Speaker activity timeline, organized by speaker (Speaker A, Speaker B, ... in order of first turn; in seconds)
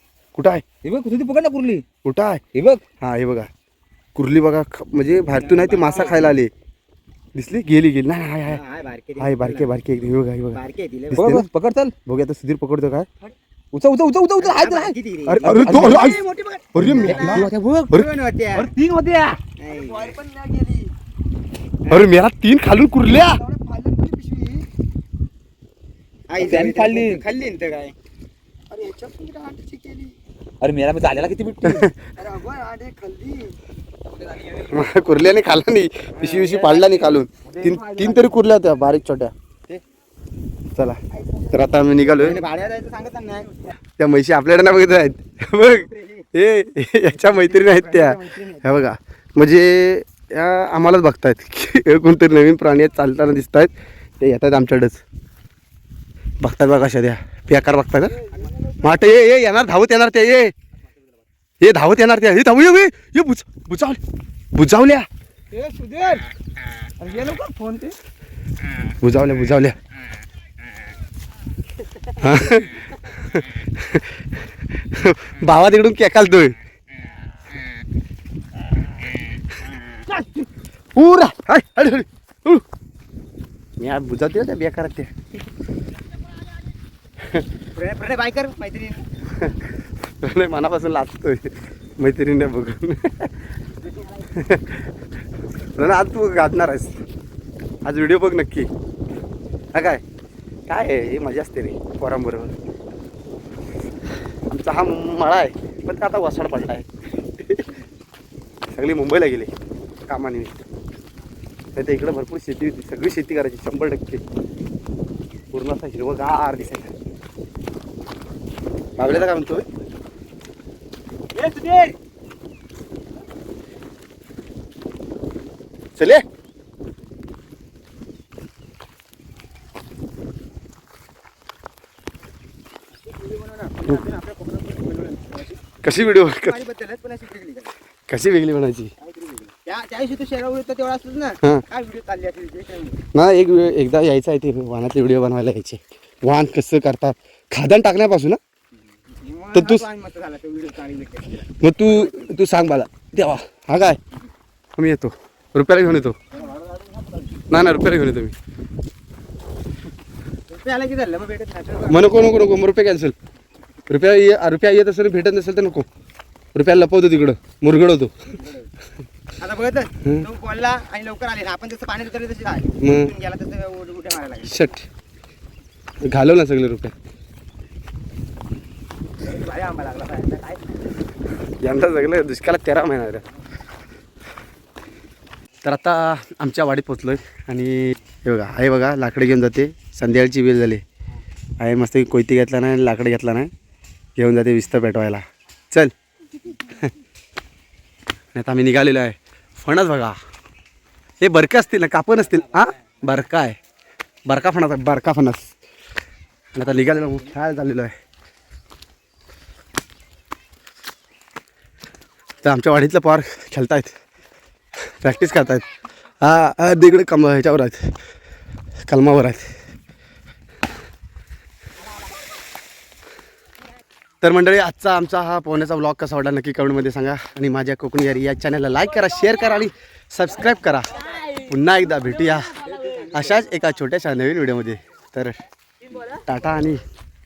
Speaker A: 0.3-0.6, 2.0-2.4, 3.0-3.5, 4.2-6.5, 7.3-8.6, 9.2-10.6, 11.1-11.4, 12.0-13.1, 15.3-16.2, 16.7-18.1, 21.9-23.4, 31.6-31.9, 34.6-39.3, 41.5-42.4, 44.0-55.0, 56.4-58.2, 58.8-60.5, 61.6-64.0, 64.5-65.1, 69.0-69.8, 72.2-74.0, 74.9-76.5, 80.1-80.4, 80.9-82.6, 83.8-85.1, 90.2-93.3, 94.3-94.9, 95.8-97.0, 97.8-98.7, 99.7-100.0, 100.7-102.5, 104.5-106.9, 107.4-107.6, 108.7-109.5, 110.1-110.6, 111.8-114.2, 115.5-116.9, 119.0-119.7, 126.0-126.2, 135.8-136.6, 138.1-138.9, 143.1-148.4, 149.5-149.8, 151.6-154.0, 154.8-156.2, 157.5-158.3, 161.9-163.2, 163.9-165.9, 166.5-168.1, 172.8-173.1, 174.4-174.8, 176.1-176.9, 181.6-183.2, 185.6-190.8, 191.6-193.5, 194.2-195.9, 198.3-200.2, 201.2-203.6, 204.2-205.5, 206.5-207.9, 212.4-213.9, 215.0-215.7, 216.2-217.9, 218.9-219.5, 224.2-232.6, 233.1-235.3, 236.2-236.8
Speaker B: 0.8-1.8, 2.5-2.8, 11.1-11.9, 13.7-20.2, 26.3-27.9, 30.6-31.8, 65.5-66.2, 67.0-67.9, 121.3-121.9
Speaker C: 5.5-6.0, 8.6-9.7, 10.5-11.3, 14.4-18.7, 19.6-20.9, 23.4-24.6, 26.3-27.9, 28.7-30.1, 32.2-33.5, 36.2-38.3, 42.2-43.7, 45.9-46.2, 47.5-48.6, 87.7-89.0, 133.0-135.6, 136.4-137.7, 139.0-143.0, 149.2-152.3, 156.4-157.2, 160.5-162.2, 169.4-174.5, 179.2-180.8, 232.6-233.2